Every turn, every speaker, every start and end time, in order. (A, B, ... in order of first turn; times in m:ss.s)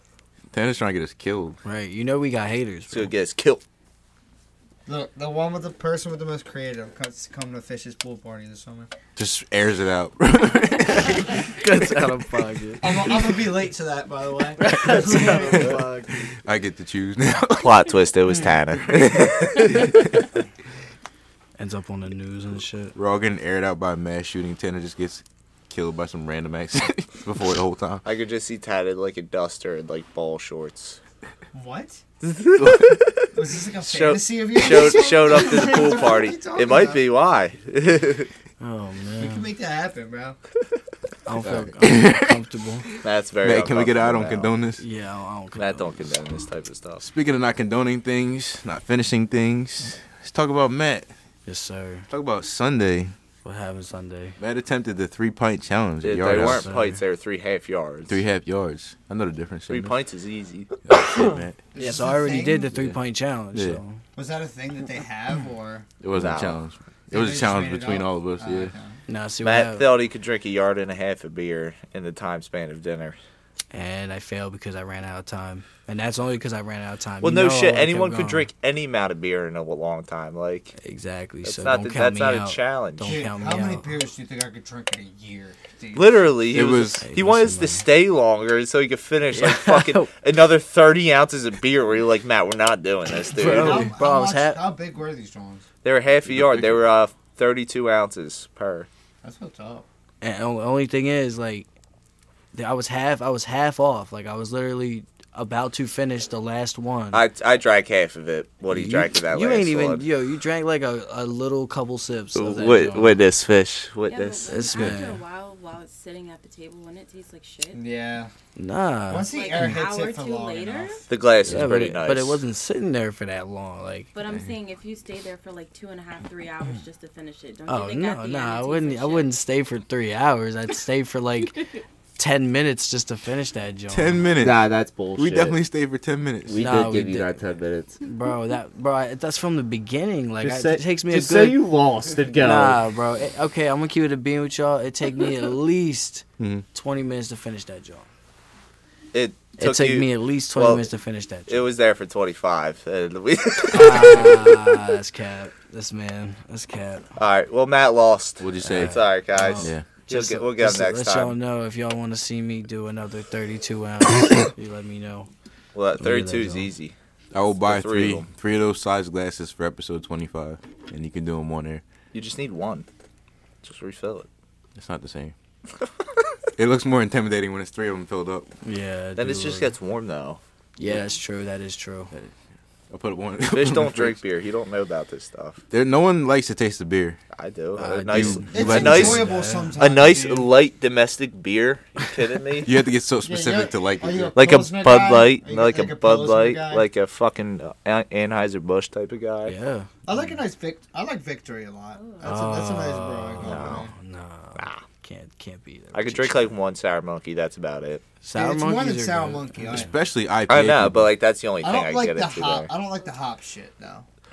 0:00.5-0:01.6 A
0:01.6-0:03.1 B
0:02.9-0:03.6 C
0:04.9-0:08.9 D
0:09.2-0:11.4 A
0:11.6-0:12.9 B
0:12.8-0:15.9 D
0:14.6-0:16.3 B
0:15.3-0:15.8 A
0:16.3-0:18.0 A
0:17.6-0:19.8 C
0:18.3-0:18.6 B
0:18.9-0:19.9 A
0:21.6-0:23.0 B
0:23.0-0:28.0 A
0:28.0-0:31.0 C
0:31.5-0:32.0 D
0:32.2-0:38.3 C
0:32.6-0:33.0 A
0:33.3-0:37.1 D
0:38.6-0:39.5 B
0:39.2-0:40.4 D
0:41.3-0:42.9 B
0:41.4-0:42.4 A
0:43.0-0:44.5 C
0:43.4-0:44.8 A
0:44.8-0:46.0 B
0:45.6-0:47.0 C
0:47.0-0:51.1 A
0:51.5-0:52.1 B
0:52.1-0:53.2 A
0:53.4-0:54.4 B
0:54.4-0:56.7 A
0:56.0-0:58.2 C
0:56.3-0:57.0 B
0:58.1-1:00.0 A
0:59.7-1:00.8 C
1:00.8-1:01.6 A
1:01.7-1:02.7 D
1:01.8-1:04.0 B
1:02.7-1:03.0 A
1:03.5-1:03.8 A
1:04.2-1:05.9 D
1:06.0-1:08.7 A
1:06.1-1:06.6 C
1:07.1-1:09.0 D
1:09.1-1:09.9 B
1:09.4-1:13.2 C
1:13.7-1:18.5 B
1:17.2-1:20.8 C
1:20.8-1:24.0 B
1:21.4-1:23.3 C
1:23.0-1:26.4 D
1:26.0-1:33.9 C
1:26.5-1:27.1 A
1:27.0-1:27.9 B
1:29.3-1:30.1 B
1:33.2-1:34.6 B
1:33.4-1:35.7 D
1:35.8-1:38.9 C
1:36.3-1:36.8 A
1:39.2-1:39.9 D
1:40.2-1:41.7 B
1:42.5-1:47.3 B
1:47.1-1:50.1 C
1:48.7-1:53.2 B
1:52.4-1:54.9 C
1:54.1-1:57.8 E
1:54.5-1:55.2 B
1:57.7-1:58.3 D
1:58.6-1:59.7 B
1:59.1-2:01.1 D
1:59.3-2:01.0 E
2:01.1-2:02.4 C
2:01.5-2:04.1 B
2:04.2-2:09.3 E
2:07.7-2:14.3 B
2:11.4-2:11.8 E
2:13.9-2:16.6 A
2:14.4-2:15.6 C
2:16.5-2:18.0 C
2:16.6-2:17.4 B
2:18.0-2:21.7 B
2:20.4-2:22.8 C
2:22.4-2:28.1 B
2:26.4-2:26.6 A
2:29.1-2:30.9 C
2:29.6-2:31.7 B
2:31.5-2:34.8 C
2:33.7-2:37.1 B
2:37.2-2:41.4 C
2:38.4-2:39.0 A
2:38.6-2:45.3 B
2:39.6-2:39.9 A
2:45.7-2:47.0 C
2:46.0-2:46.7 B
2:47.3-2:51.8 A
2:47.6-2:48.3 C
2:52.1-2:52.9 C
2:53.6-2:54.3 C
2:54.8-2:55.4 A
2:56.6-2:58.5 A
2:58.6-2:59.8 B
2:59.2-3:00.4 C
3:00.8-3:02.1 B
3:02.9-3:04.2 A
3:03.5-3:05.6 C
3:05.7-3:07.2 A
3:07.3-3:09.3 C
3:07.8-3:09.8 B
3:08.1-3:09.3 A
3:08.5-3:10.5 D
3:09.8-3:12.8 C
3:12.6-3:14.7 A
3:13.2-3:16.9 D
3:14.4-3:19.6 C
3:19.4-3:20.4 B
3:20.1-3:23.9 D
3:21.9-3:22.4 E
3:22.2-3:26.5 B
3:23.4-3:23.9 C
3:24.6-3:24.8 C
3:25.9-3:28.0 C
3:28.2-3:29.9 B
3:28.3-3:29.9 D
3:29.7-3:31.1 A
3:30.5-3:32.7 C
3:31.6-3:34.1 D